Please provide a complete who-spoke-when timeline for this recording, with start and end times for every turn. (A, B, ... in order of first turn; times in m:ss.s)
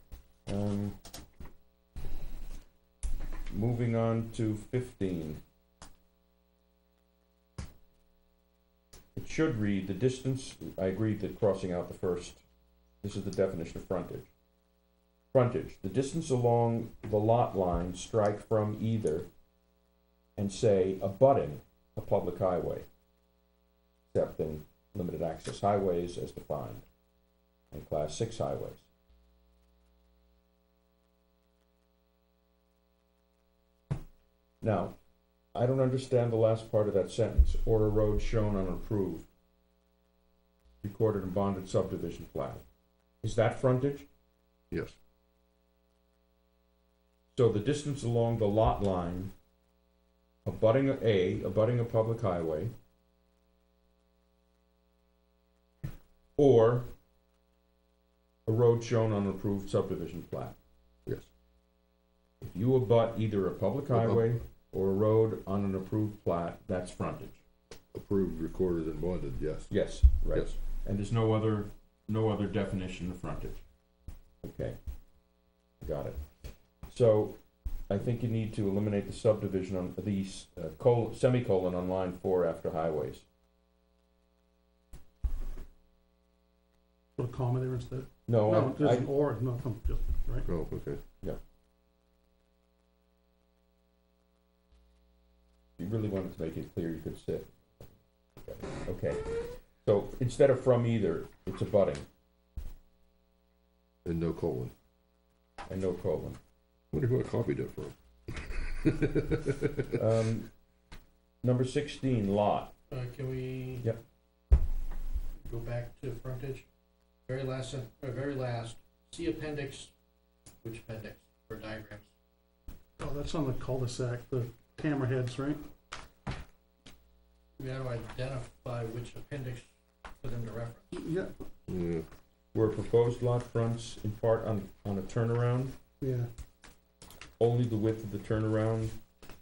0:00.4-0:01.0 A
0:03.5-0:05.4 A
0:09.2-0:12.4 A
0:13.0-0:14.3 A
0:15.3-0:19.3 A
0:20.4-0:22.8 A
0:24.1-0:26.8 A
0:27.7-0:28.8 A
0:34.6-0:34.9 A
0:35.5-0:39.3 A
0:40.8-0:42.6 A
0:43.2-0:44.1 A
0:47.3-0:49.3 A
0:50.4-0:52.7 A
0:56.4-0:56.9 A
0:58.5-1:00.6 A
1:02.4-1:07.4 A
1:03.9-1:04.3 B
1:07.9-1:09.8 B
1:09.7-1:13.6 A
1:14.4-1:14.8 A
1:15.8-1:16.3 A
1:16.8-1:23.2 A
1:27.2-1:30.5 C
1:28.3-1:29.1 A
1:30.5-1:31.0 B
1:35.8-1:42.0 A
1:44.0-1:44.7 B
1:45.7-1:46.4 A
1:46.9-1:49.9 B
1:50.0-1:50.5 A
1:51.4-1:52.7 A
1:52.9-1:53.9 D
1:55.4-1:56.6 D
1:57.3-1:59.9 D
2:00.6-2:02.1 D
2:03.0-2:05.6 C
2:07.6-2:11.0 D
2:10.9-2:11.3 C
2:11.7-2:12.0 B
2:12.5-2:15.7 A
2:16.0-2:16.3 C
2:17.4-2:19.0 A